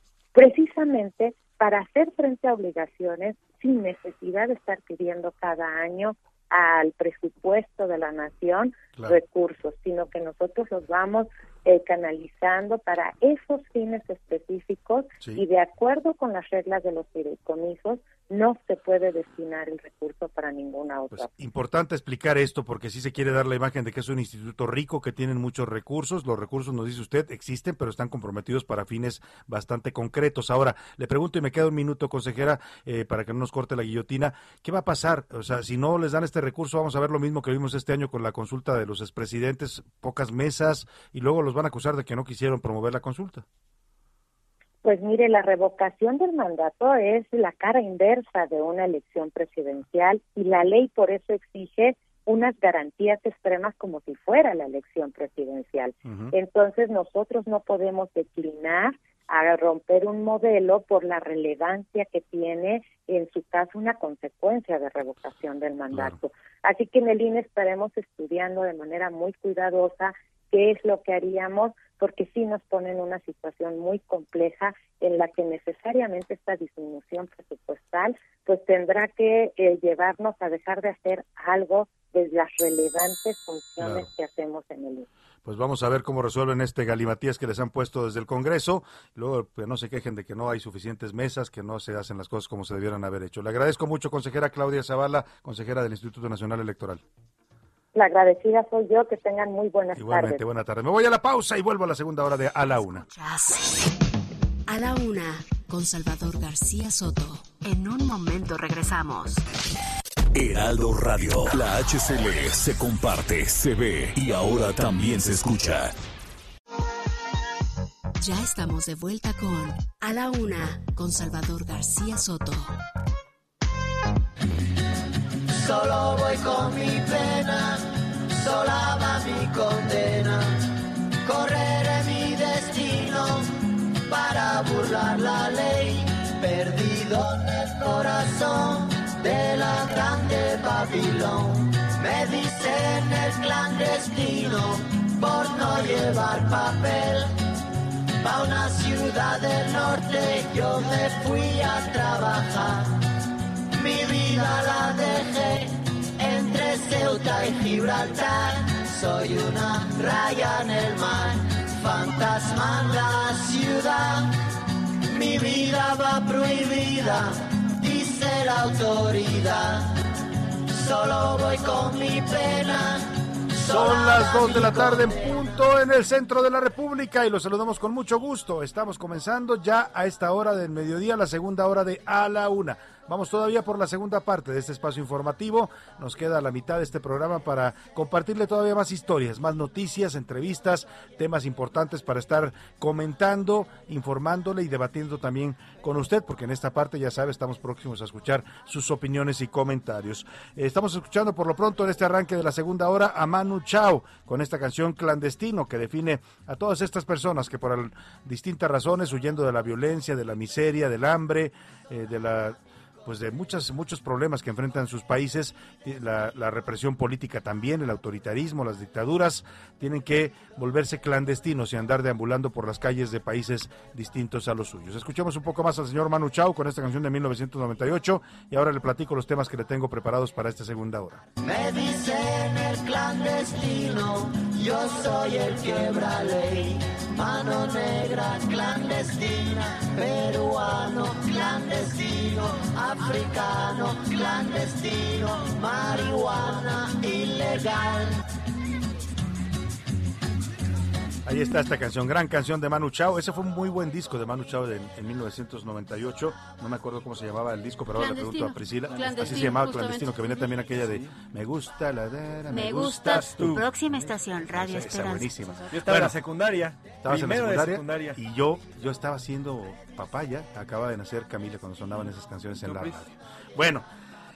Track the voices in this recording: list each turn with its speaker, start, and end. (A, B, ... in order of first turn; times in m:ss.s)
0:00.3-0:21.3 A
0:21.1-0:43.4 B
0:44.8-1:25.1 A
0:56.0-0:56.3 B
1:05.9-1:06.2 B
1:23.8-1:24.1 B
1:25.4-1:37.0 B
1:37.9-1:40.4 A
1:39.9-1:43.0 B
1:43.1-1:43.9 C
1:44.7-1:49.4 C
1:50.3-1:55.9 D
1:58.2-2:02.8 C
2:05.5-2:10.7 E
2:11.2-2:27.3 E
2:28.2-2:33.0 E
2:33.7-2:44.3 E
2:45.1-2:50.0 E
2:50.7-2:55.6 E
2:53.6-3:51.2 B
3:51.4-4:08.2 E
4:11.2-4:23.7 B
4:17.9-4:20.5 F
4:18.9-4:19.5 G
4:20.8-4:21.1 G
4:22.5-4:25.7 F
4:23.2-4:23.4 G
4:24.4-4:26.2 B
4:25.7-4:28.2 G
4:27.0-4:33.8 B
4:32.6-4:33.0 G